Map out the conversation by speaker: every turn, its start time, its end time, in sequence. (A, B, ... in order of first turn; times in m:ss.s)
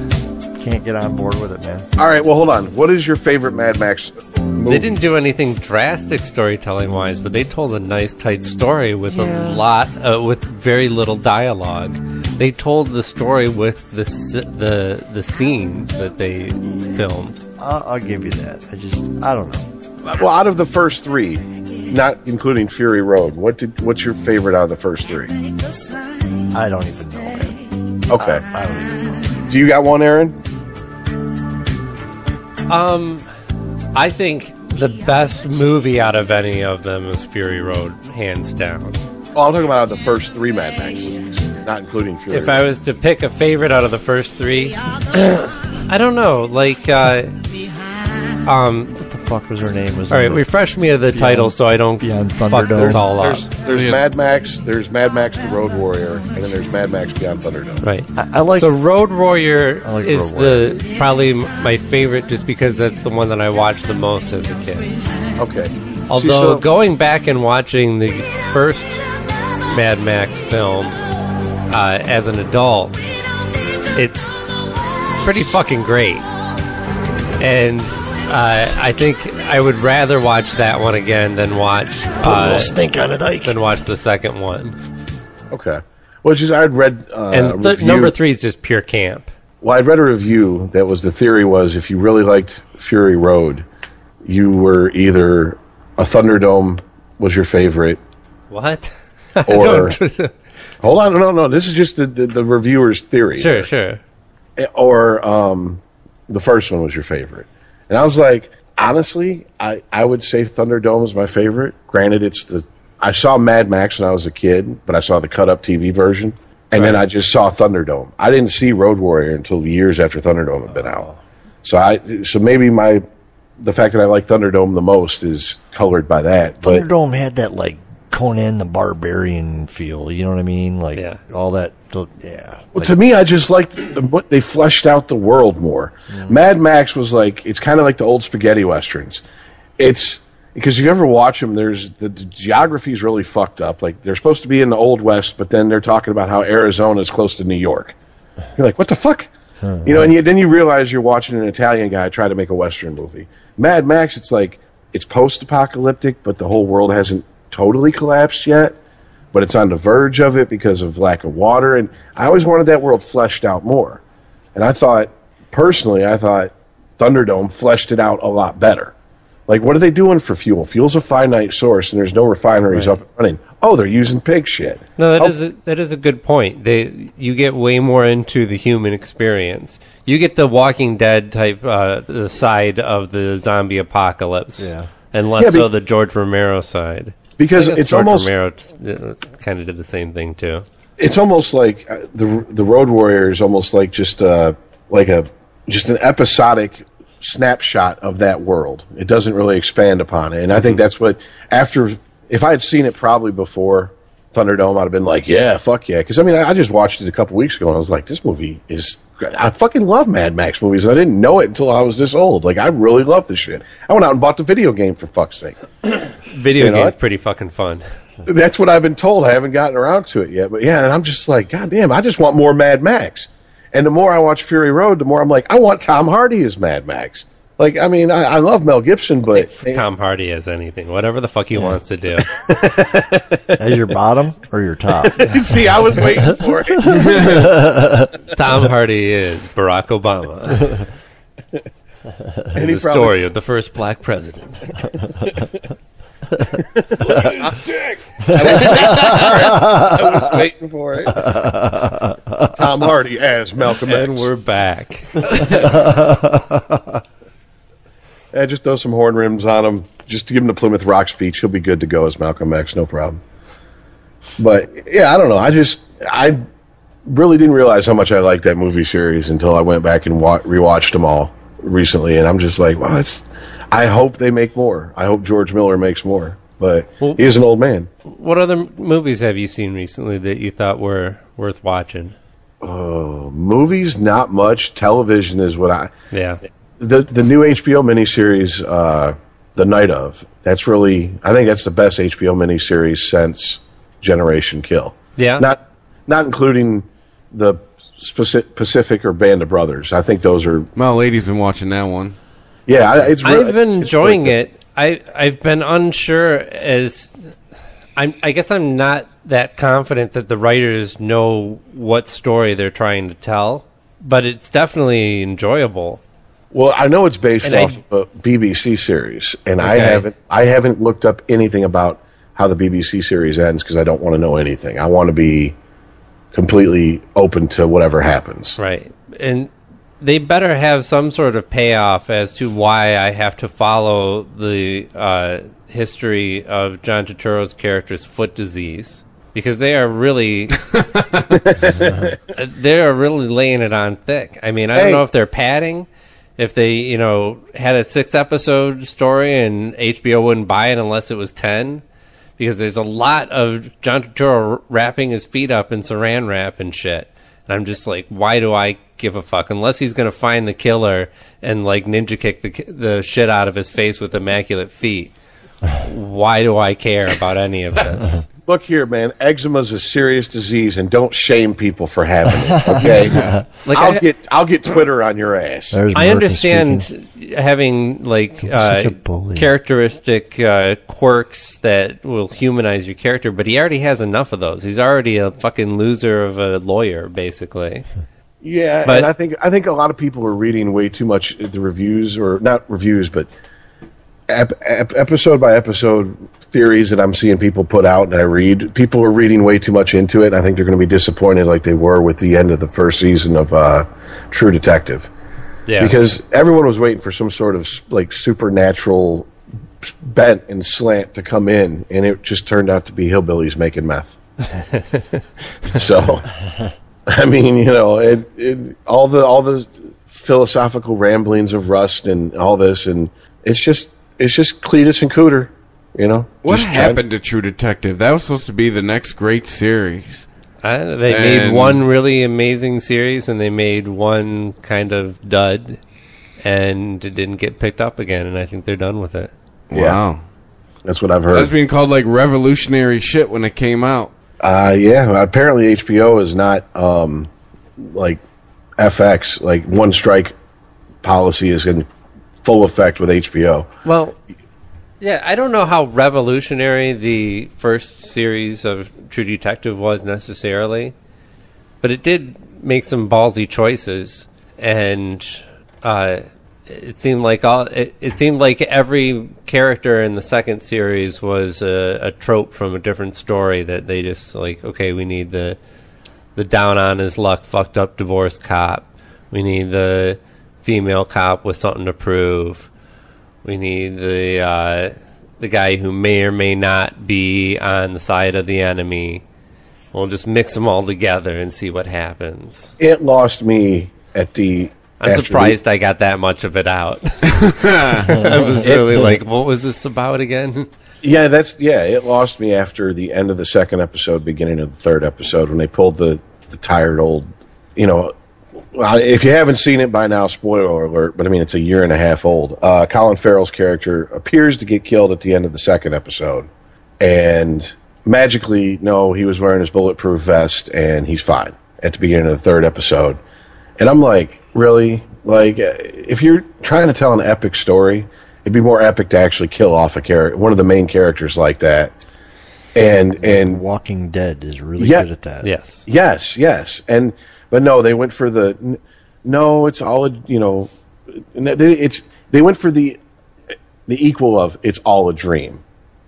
0:00.5-0:01.8 A
0:02.0-0:05.0 B
0:04.7-0:17.4 C
0:17.6-0:19.7 A
0:20.0-0:25.3 B
0:26.5-0:29.4 A
0:28.1-0:28.4 B
0:29.5-0:30.4 B
0:32.7-0:33.2 C
0:33.9-0:39.0 C
0:39.3-0:42.6 B
0:42.3-0:47.3 C
0:48.4-0:48.9 C
0:48.9-0:50.4 A
0:50.1-0:53.5 C
0:51.1-0:53.0 A
0:52.8-0:57.8 B
0:53.7-0:54.0 D
0:57.8-1:04.9 C
0:58.1-0:58.8 A
0:59.8-1:00.7 A
1:05.4-1:06.6 B
1:06.1-1:09.0 C
1:09.7-1:11.0 C
1:11.7-1:13.0 C
1:13.9-1:14.3 C
1:15.2-1:16.2 C
1:17.4-1:22.7 C
1:22.2-1:23.6 A
1:23.4-1:24.7 C
1:25.5-1:28.1 B
1:27.3-1:29.3 C
1:29.6-1:33.6 B
1:34.2-1:38.0 B
1:38.5-1:40.3 C
1:39.5-1:40.0 B
1:40.8-1:43.7 B
1:43.3-1:44.0 C
1:44.6-2:01.1 B
2:00.7-2:01.2 A
2:01.6-2:03.0 B
2:03.6-2:06.8 B
2:06.6-2:13.0 A
2:10.9-2:11.2 C
2:12.7-2:19.2 B
2:16.1-2:16.4 A
2:19.8-2:27.9 B
2:28.6-2:29.3 B
2:29.6-2:30.1 A
2:29.8-2:38.7 B
2:39.3-2:44.0 B
2:44.5-2:48.9 B
2:49.5-2:55.4 B
2:52.7-2:53.0 C
2:55.0-3:10.6 C
3:04.6-3:04.9 A
3:05.4-3:05.7 B
3:07.4-3:08.3 B
3:11.0-3:35.6 B
3:36.3-3:37.8 C
3:36.6-3:36.9 B
3:38.2-3:49.8 B
3:49.3-3:52.3 C
3:52.3-3:53.5 B
3:53.6-3:55.4 A
3:55.0-3:57.5 B
3:56.8-3:58.1 A
3:58.3-4:00.8 C
4:02.5-4:03.2 B
4:02.6-4:04.7 C
4:06.6-4:11.4 B
4:11.2-4:12.5 A
4:12.5-4:14.3 B
4:13.9-4:15.7 C
4:15.6-4:17.0 A
4:18.3-4:23.2 B
4:24.4-4:26.4 B
4:27.1-4:37.9 B
4:38.0-4:42.1 C
4:42.6-4:45.9 B
4:46.1-4:46.4 C
4:46.8-5:00.7 B
4:55.2-4:55.4 C
5:00.8-5:02.2 D
5:02.7-5:04.3 B
5:03.2-5:07.3 C
5:08.0-5:16.0 C
5:16.5-5:25.5 B
5:17.4-5:17.8 C
5:19.6-5:20.0 C
5:26.3-5:28.6 B
5:28.6-5:40.6 C
5:41.3-5:42.2 B
5:42.3-5:51.8 C
5:44.7-5:45.0 B
5:52.4-6:05.1 C
6:05.8-6:08.2 C
6:08.4-6:15.8 B
6:12.4-6:13.4 A
6:13.6-6:14.0 C
6:15.7-6:16.9 A
6:15.9-6:27.8 C
6:18.4-6:19.5 A
6:28.4-6:33.3 B
6:28.8-6:29.1 C
6:34.3-6:45.1 B
6:45.7-6:45.9 C
6:45.8-6:49.3 B
6:49.8-6:54.2 B
6:54.6-6:55.2 C
6:55.7-6:56.3 B
6:57.1-7:07.0 B
7:06.4-7:10.2 D
7:10.6-7:15.8 C
7:11.1-7:11.8 D
7:16.4-7:19.3 C
7:19.7-7:20.2 D
7:19.7-7:20.0 B
7:20.8-7:21.5 B
7:21.3-7:24.1 D
7:24.4-7:28.2 B
7:28.8-7:30.3 B
7:31.0-7:31.9 B
7:32.4-7:33.7 B
7:33.8-7:34.2 C
7:35.0-7:40.9 C
7:41.8-7:55.6 C
7:56.4-8:02.7 C
8:03.4-8:09.2 C
8:09.9-8:12.7 C
8:12.8-8:15.6 B
8:15.0-8:20.7 C
8:17.4-8:18.1 D
8:18.1-8:18.6 A
8:18.6-8:19.1 B
8:21.0-8:28.1 B
8:28.7-8:36.5 B
8:37.0-8:43.2 B
8:43.8-8:51.9 B
8:52.7-8:53.6 B
8:53.1-8:55.5 A
8:54.8-8:55.0 B
8:55.4-8:55.8 C
8:55.8-9:00.7 B
9:01.2-9:03.0 B
9:03.9-9:05.6 B